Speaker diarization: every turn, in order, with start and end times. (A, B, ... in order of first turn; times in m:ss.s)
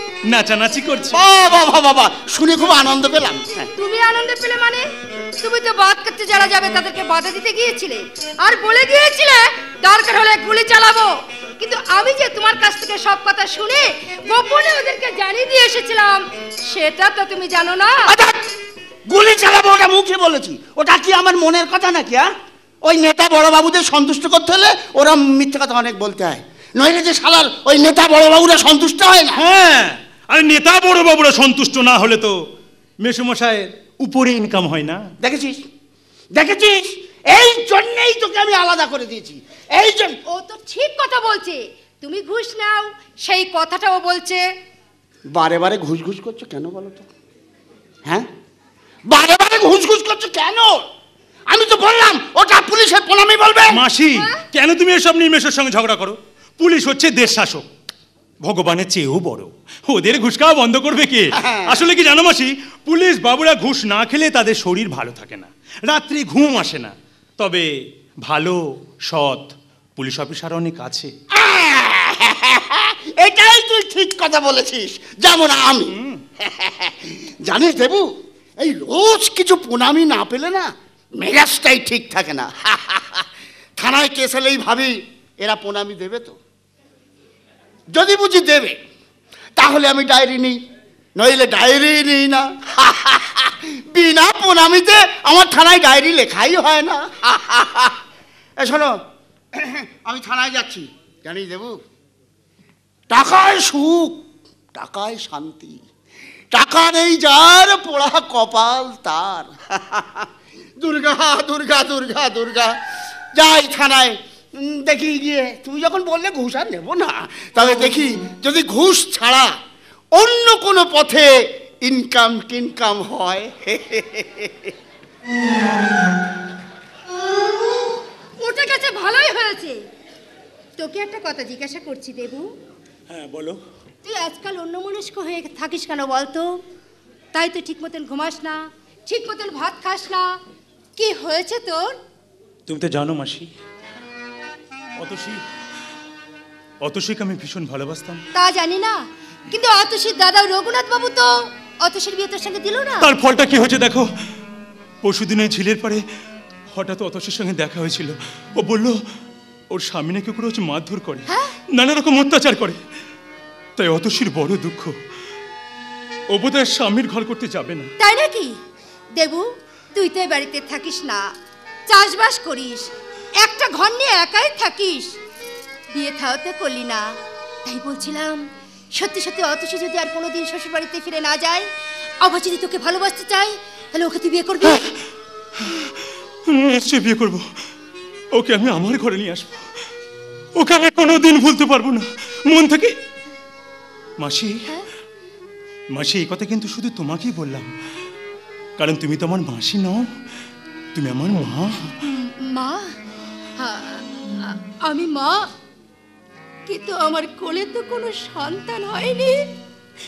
0:00.3-0:01.2 A
0:01.1-0:03.7 B
0:03.8-0:04.8 C
0:05.4-0:18.2 C
0:18.1-0:18.4 B
0:19.1-0:22.3 B
0:22.8-0:29.4 B
0:29.4-0:32.3 A
0:33.0-0:35.0 A
0:35.2-0:35.6 B
0:36.3-0:40.2 B
0:40.3-0:44.4 C
0:45.3-0:47.1 B
0:49.1-0:50.8 B
0:51.5-0:53.8 B
0:53.7-0:57.7 A
0:58.4-1:07.7 A
1:01.4-1:01.9 B
1:08.2-1:11.1 A
1:11.4-1:18.1 B
1:18.6-1:23.2 B
1:23.8-1:26.4 B
1:27.9-1:28.8 B
1:29.6-1:30.6 B
1:31.2-1:38.0 B
1:38.6-1:39.0 B
1:39.5-1:41.8 B
1:43.1-1:44.2 B
1:44.8-1:45.8 B
1:46.5-1:50.3 B
1:50.8-1:52.8 B
1:53.4-1:59.5 B
2:00.2-2:01.3 B
2:01.8-2:04.7 B
2:08.4-2:09.8 C
2:10.8-2:12.5 C
2:13.1-2:13.6 A
2:14.0-2:16.6 C
2:17.4-2:20.3 C
2:21.0-2:22.0 C
2:22.7-2:23.5 A
2:25.0-2:25.4 A
2:26.8-2:28.2 A
2:28.4-2:31.3 C
2:31.8-2:33.1 C
2:33.0-2:34.1 A
2:35.0-2:36.0 A
2:36.7-2:38.9 A
2:39.7-2:42.8 A
2:43.8-2:44.9 A
2:46.3-2:47.9 A
2:48.0-2:48.6 C
2:49.1-2:51.2 C
2:51.9-2:52.9 C
2:53.4-2:55.1 C
2:55.9-2:57.1 C
2:57.7-2:58.4 C
2:59.0-3:01.7 C
3:02.2-3:04.9 C
3:06.5-3:07.4 A
3:08.4-3:09.6 A
3:10.6-3:12.9 A
3:14.2-3:14.6 A
3:15.9-3:17.7 A
3:18.8-3:20.1 A
3:21.0-3:21.9 A
3:22.1-3:22.9 C
3:23.6-3:25.4 C
3:26.7-3:29.4 C